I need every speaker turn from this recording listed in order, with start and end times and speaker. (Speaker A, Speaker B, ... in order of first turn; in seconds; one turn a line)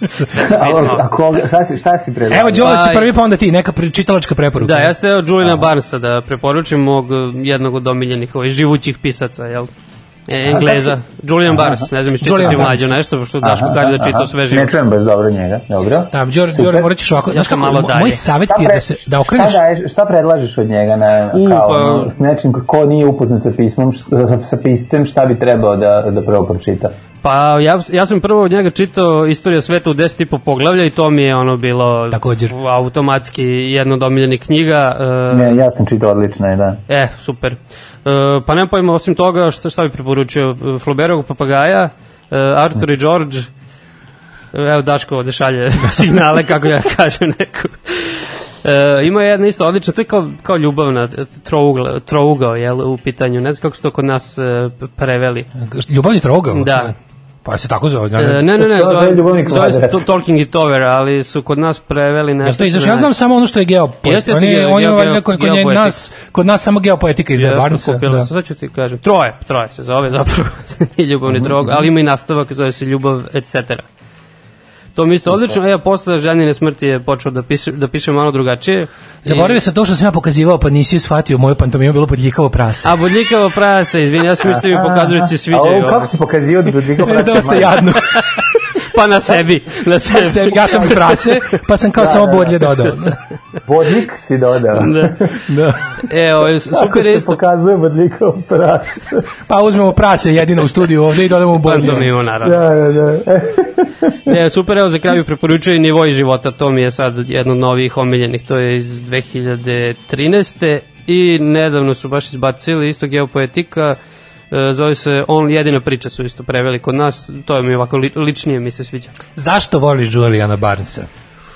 Speaker A: 0.3-1.0
Speaker B: 0.5-2.8
Speaker C: 2.3-4.9
Speaker A: 2.6-3.1
Speaker A: 4.6-9.7
Speaker B: 5.4-5.7
Speaker A: 10.3-14.7
Speaker B: 10.5-10.9
Speaker B: 11.5-11.9
Speaker C: 12.2-12.9
Speaker B: 13.4-16.9
Speaker C: 16.1-19.6
Speaker A: 17.3-18.2
Speaker B: 18.5-26.9
Speaker A: 21.3-22.1
Speaker A: 27.2-35.6
Speaker C: 32.1-32.5
Speaker B: 35.3-36.8
Speaker A: 36.9-43.5
Speaker A: 44.5-55.5
Speaker C: 55.6-58.4
Speaker A: 56.5-56.9
Speaker A: 58.2-63.1
Speaker B: 58.6-60.0
Speaker C: 62.4-68.3
Speaker A: 64.0-66.0
Speaker A: 67.4-73.9
Speaker B: 71.3-71.7
Speaker A: 75.0-79.6
Speaker C: 79.2-82.9
Speaker A: 82.8-86.1
Speaker B: 84.4-87.8
Speaker C: 87.0-88.2
Speaker A: 88.8-91.5
Speaker C: 90.0-93.2
Speaker B: 92.0-92.7
Speaker B: 93.6-95.3
Speaker A: 94.8-95.2
Speaker C: 95.5-95.9
Speaker A: 96.1-97.4
Speaker B: 96.7-99.3
Speaker C: 99.5-102.1
Speaker A: 101.6-102.6
Speaker B: 102.4-104.3
Speaker A: 104.3-114.0
Speaker A: 114.5-119.1
Speaker C: 119.3-121.1